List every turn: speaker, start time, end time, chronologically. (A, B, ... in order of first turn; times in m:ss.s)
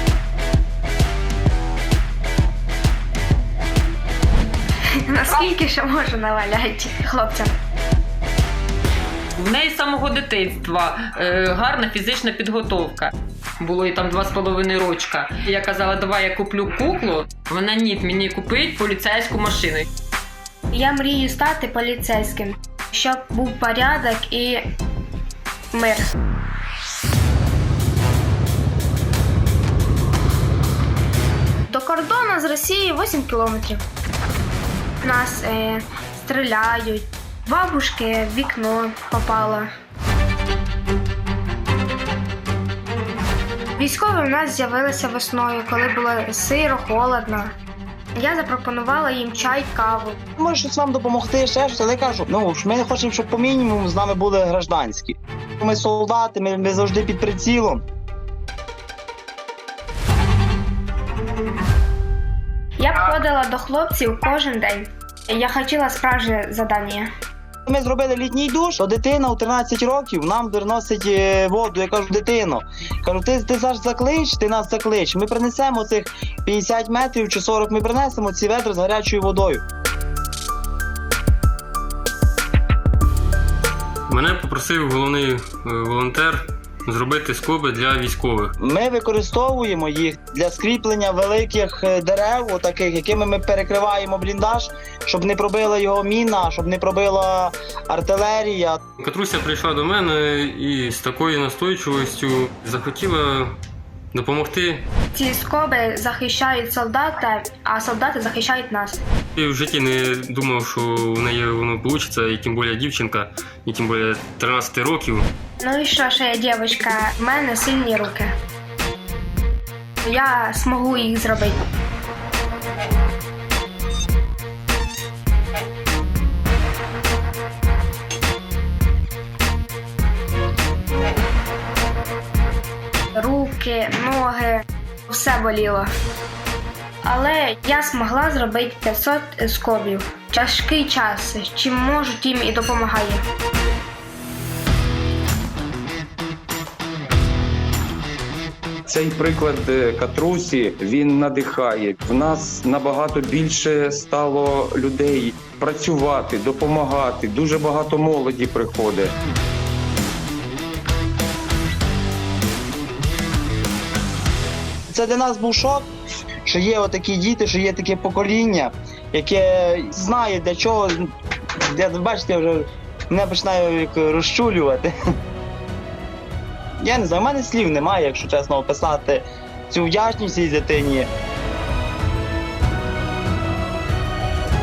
0:05.0-0:07.5 A
0:09.4-0:19.9 B
0:20.7-0:24.6 A
0:25.7-0:26.1 A
0:31.7-0:33.8 A
0:35.0-0:39.7 A
0:43.8-0:47.5 A
0:48.2-0:50.2 A
0:50.4-0:57.8 C
1:02.8-1:07.1 A
1:07.7-1:19.6 C
1:24.1-1:28.5 D
1:28.6-1:38.8 C
1:39.0-1:43.6 D
1:44.1-1:44.8 D
1:45.1-1:49.0 A
1:49.4-1:55.3 D
1:55.6-1:58.3 A
2:00.0-2:01.6 A
2:13.2-2:15.9 A
2:17.0-2:23.2 A
2:28.9-2:39.1 E
2:44.9-2:45.9 C
2:46.4-2:51.1 C
2:51.7-2:54.9 C
2:56.8-3:01.1 C